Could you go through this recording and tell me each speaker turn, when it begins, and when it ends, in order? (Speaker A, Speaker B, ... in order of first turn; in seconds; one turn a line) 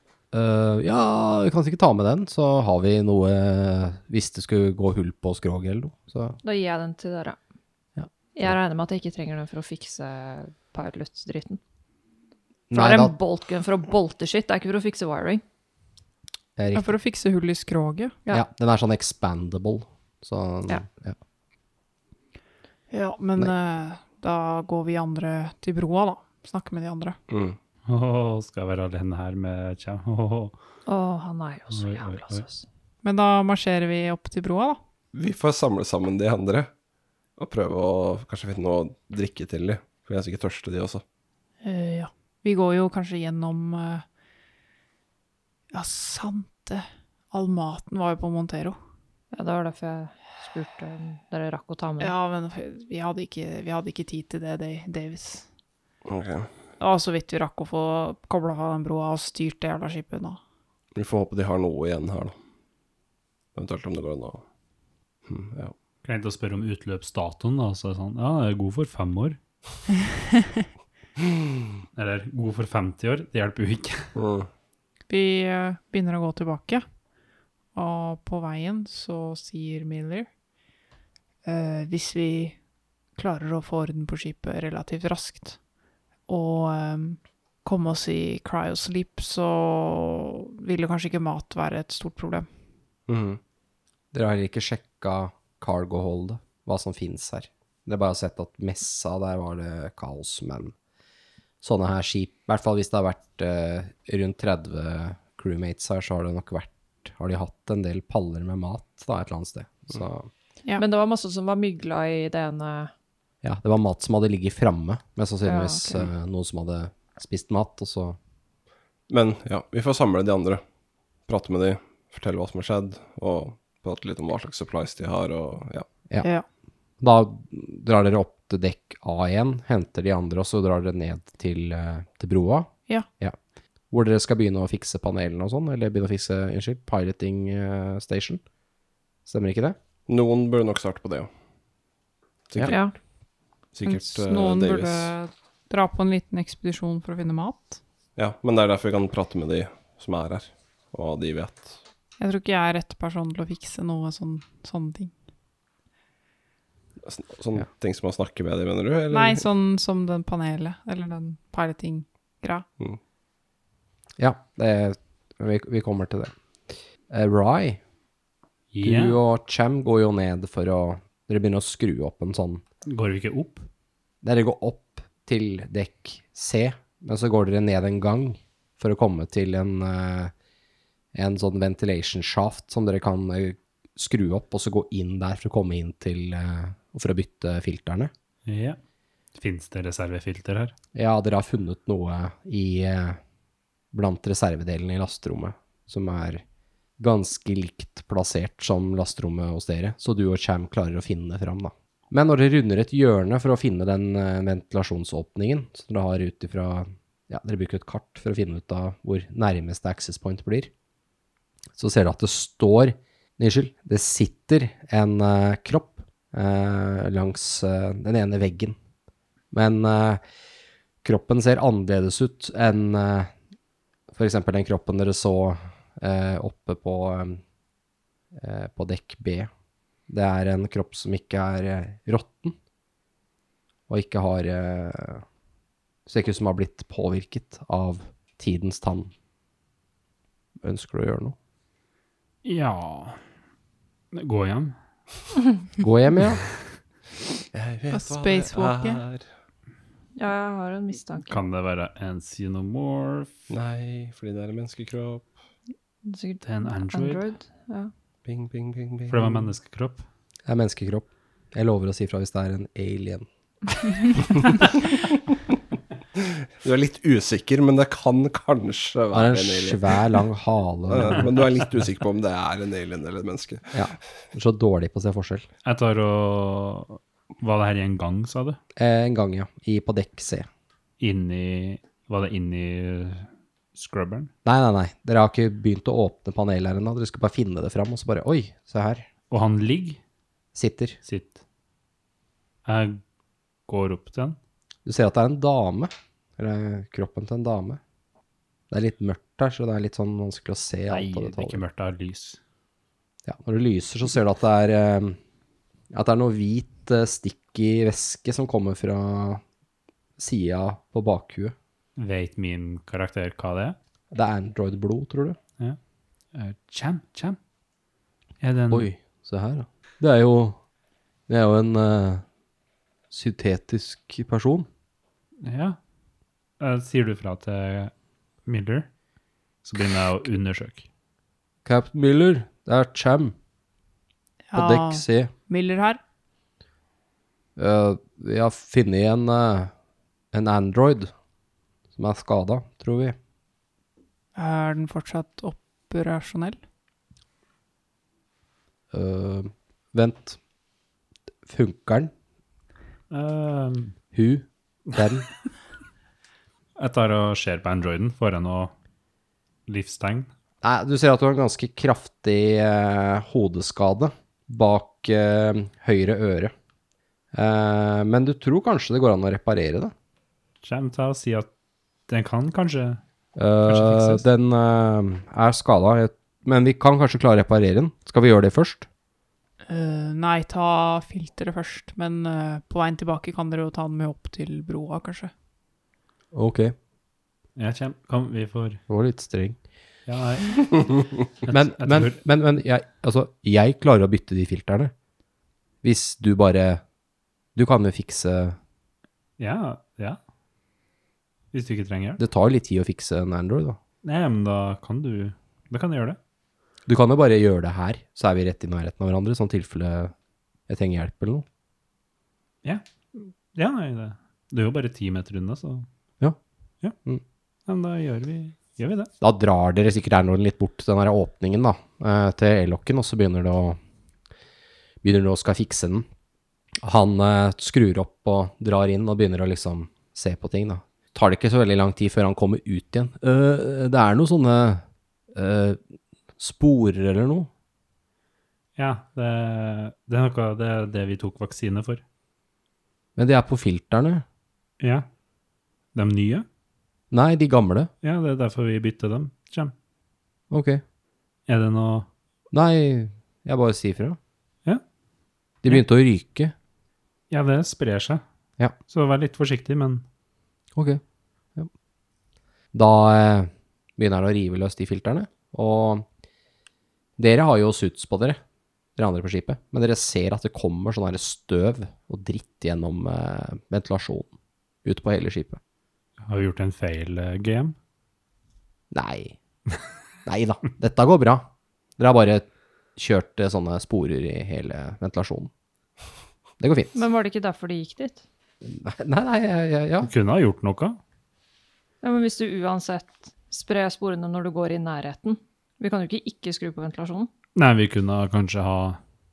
Speaker A: 0.3-6.4
Speaker B: 6.4-7.4
Speaker A: 8.0-8.6
Speaker B: 8.3-11.6
Speaker A: 12.7-13.2
Speaker B: 12.7-15.4
Speaker A: 16.6-16.9
Speaker C: 16.7-18.2
Speaker A: 18.3-21.2
Speaker C: 22.9-27.2
Speaker D: 27.3-27.6
Speaker E: 27.9-30.6
Speaker B: 30.9-32.6
Speaker E: 31.7-32.4
Speaker C: 33.0-34.8
Speaker D: 35.1-36.7
Speaker D: 37.4-41.0
Speaker C: 41.6-44.1
Speaker C: 45.7-48.8
Speaker B: 49.3-52.1
Speaker C: 52.0-55.5
Speaker D: 56.1-56.5
Speaker C: 56.8-60.4
Speaker D: 61.0-62.4
Speaker D: 63.5-64.4
Speaker D: 65.3-65.7
Speaker E: 66.0-69.4
Speaker E: 72.0-74.1
Speaker D: 74.2-74.5
Speaker C: 75.1-76.8
Speaker C: 77.7-80.3
Speaker C: 81.5-82.6
Speaker C: 83.2-85.6
Speaker C: 86.3-92.5
Speaker D: 93.1-93.4
Speaker A: 94.1-100.8
Speaker A: 101.6-110.3
Speaker B: 110.8-112.9
Speaker A: 113.4-118.2
Speaker B: 115.5-116.1
Speaker D: 119.1-120.6
Speaker D: 121.3-125.9
Speaker A: 127.0-133.4
Speaker A: 133.9-138.4
Speaker A: 139.3-139.8
Speaker D: 140.1-141.3
Speaker D: 142.5-142.8
Speaker B: 142.7-143.0
Speaker D: 143.7-145.1
Speaker C: 143.8-147.8
Speaker D: 148.2-151.8
Speaker C: 152.2-155.1
Speaker D: 157.0-159.5
Speaker C: 159.1-162.7
Speaker A: 164.2-166.3
Speaker A: 167.1-167.8
Speaker E: 168.7-169.2
Speaker A: 168.8-172.6
Speaker E: 172.9-173.7
Speaker A: 174.2-180.3
Speaker A: 181.1-188.1
Speaker E: 188.5-188.8
Speaker E: 189.4-190.7
Speaker A: 190.9-193.2
Speaker A: 193.9-196.4
Speaker A: 197.0-210.7
Speaker A: 211.8-218.8
Speaker A: 219.5-220.2
Speaker A: 221.0-223.3
Speaker A: 224.1-227.4
Speaker A: 228.3-229.5
Speaker A: 230.1-232.6
Speaker A: 233.9-235.2
Speaker A: 236.1-239.1
Speaker A: 240.6-241.4
Speaker E: 242.4-243.2
Speaker E: 244.1-244.8
Speaker A: 245.8-246.4
Speaker D: 247.5-249.3
Speaker C: 247.9-249.0
Speaker B: 250.2-251.4
Speaker E: 251.3-253.3
Speaker D: 253.5-255.3
Speaker B: 256.1-257.9
Speaker E: 256.4-257.2
Speaker D: 258.2-259.5
Speaker E: 259.1-260.1
Speaker A: 260.5-263.3
Speaker D: 266.2-270.2
Speaker A: 269.1-271.3
Speaker D: 270.9-273.8
Speaker A: 273.7-275.5
Speaker E: 275.6-278.6
Speaker A: 278.8-280.5
Speaker E: 281.0-284.3
Speaker A: 284.4-289.1
Speaker E: 289.3-290.0
Speaker A: 290.6-291.0
Speaker E: 291.1-291.4
Speaker E: 292.6-293.0
Speaker E: 293.7-294.4
Speaker A: 294.9-297.8
Speaker A: 298.7-301.6
Speaker E: 300.9-302.4
Speaker A: 303.2-305.2
Speaker A: 305.9-309.4
Speaker A: 310.2-311.6
Speaker E: 312.0-313.8
Speaker A: 314.1-315.4
Speaker E: 316.3-317.4
Speaker E: 318.4-318.9
Speaker A: 318.7-320.6
Speaker A: 321.3-322.2
Speaker A: 323.1-324.7
Speaker E: 325.4-325.8
Speaker E: 326.6-327.9
Speaker E: 328.5-328.9
Speaker E: 329.6-330.9
Speaker A: 331.6-333.4
Speaker C: 334.5-336.0
Speaker A: 334.5-335.3
Speaker A: 337.6-339.7
Speaker A: 340.3-341.1
Speaker A: 341.9-343.2
Speaker C: 344.4-346.6
Speaker A: 348.9-350.4
Speaker A: 351.5-352.1
Speaker E: 353.1-354.0
Speaker A: 354.1-355.3
Speaker E: 356.8-358.7
Speaker E: 359.7-360.3
Speaker A: 360.6-366.5
Speaker A: 367.3-369.9
Speaker E: 370.6-371.5
Speaker E: 372.1-373.0
Speaker A: 373.4-378.9
Speaker E: 373.7-374.2
Speaker C: 379.7-385.3
Speaker A: 386.3-386.8
Speaker E: 387.6-388.8
Speaker A: 388.9-389.6
Speaker E: 390.1-392.2
Speaker A: 391.5-394.9
Speaker A: 395.8-396.8
Speaker A: 397.6-398.6
Speaker E: 399.4-400.2
Speaker E: 401.5-402.2
Speaker A: 402.2-403.8
Speaker E: 404.0-406.2
Speaker A: 406.9-410.1
Speaker A: 410.7-411.5
Speaker E: 412.6-415.9
Speaker E: 417.7-419.1
Speaker A: 419.2-423.8
Speaker A: 425.0-426.1
Speaker A: 426.8-435.8
Speaker A: 436.4-437.5
Speaker E: 438.8-442.0
Speaker A: 443.2-444.2
Speaker E: 444.8-445.1
Speaker E: 445.9-446.5
Speaker A: 447.1-447.9
Speaker E: 448.0-449.7
Speaker A: 450.5-450.8
Speaker E: 451.5-452.1
Speaker A: 452.5-454.2
Speaker A: 455.6-456.5
Speaker E: 457.3-458.2
Speaker E: 458.9-460.0
Speaker A: 460.8-461.0
Speaker A: 462.7-466.1
Speaker A: 467.2-468.4
Speaker A: 469.0-474.3
Speaker A: 474.8-475.6
Speaker E: 476.2-477.8
Speaker A: 478.9-479.4
Speaker A: 480.2-485.5
Speaker A: 486.6-487.0
Speaker B: 486.9-488.2
Speaker A: 488.6-490.1
Speaker E: 490.0-491.0
Speaker B: 492.0-497.3
Speaker E: 497.6-499.0